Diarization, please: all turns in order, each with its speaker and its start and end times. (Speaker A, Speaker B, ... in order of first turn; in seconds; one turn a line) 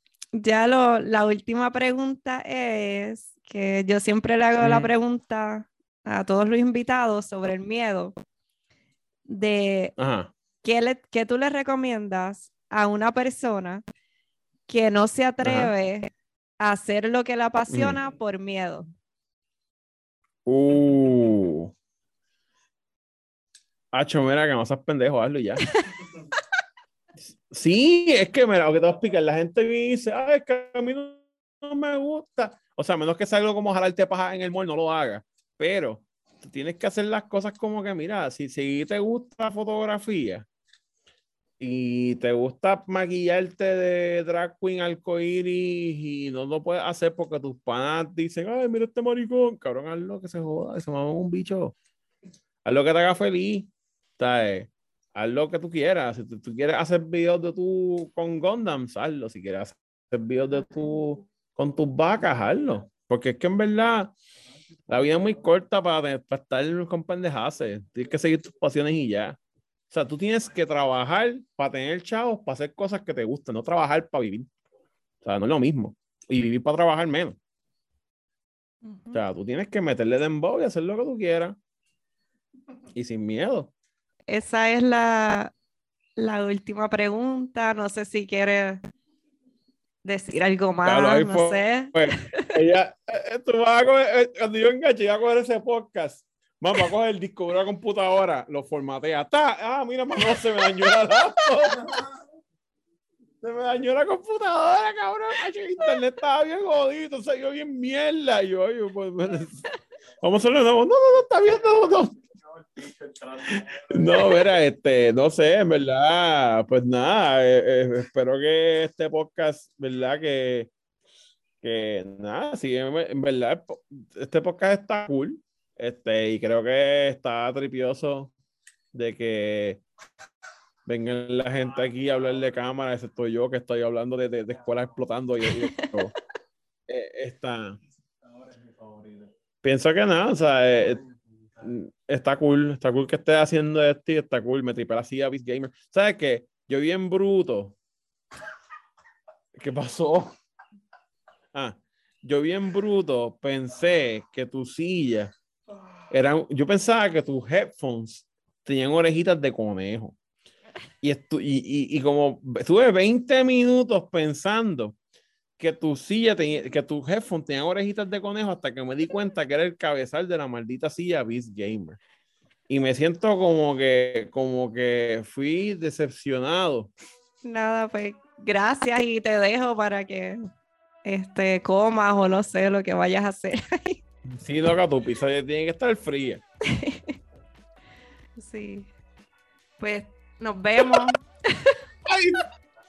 Speaker A: 0.3-8.1
Speaker B: 4.6-4.9
Speaker A: 9.2-9.9
Speaker B: 10.0-10.3
Speaker A: 10.6-13.8
Speaker A: 14.7-18.9
Speaker B: 15.4-15.7
Speaker B: 17.7-18.0
Speaker B: 20.4-21.7
Speaker B: 23.9-25.6
Speaker B: 27.5-40.5
Speaker B: 41.6-51.7
Speaker B: 52.6-64.1
Speaker B: 64.9-69.4
Speaker B: 69.9-74.5
Speaker B: 75.2-77.4
Speaker A: 78.8-79.2
Speaker B: 79.1-81.6
Speaker B: 82.9-83.7
Speaker A: 84.3-85.5
Speaker A: 86.2-88.8
Speaker A: 90.0-92.6
Speaker B: 90.8-102.0
Speaker A: 100.2-100.9
Speaker B: 103.4-109.6
Speaker B: 110.2-112.2
Speaker B: 113.1-120.7
Speaker B: 121.6-128.3
Speaker B: 128.9-129.8
Speaker B: 130.8-136.1
Speaker A: 135.5-135.9
Speaker B: 136.9-137.8
Speaker B: 139.6-141.0
Speaker B: 141.6-147.8
Speaker B: 149.5-150.3
Speaker B: 151.5-155.3
Speaker B: 156.1-160.2
Speaker B: 161.0-164.9
Speaker B: 165.6-172.0
Speaker B: 172.7-176.9
Speaker A: 177.4-180.4
Speaker A: 181.0-184.0
Speaker B: 184.3-186.4
Speaker A: 186.7-187.2
Speaker A: 188.4-188.9
Speaker A: 189.8-191.8
Speaker B: 192.1-192.4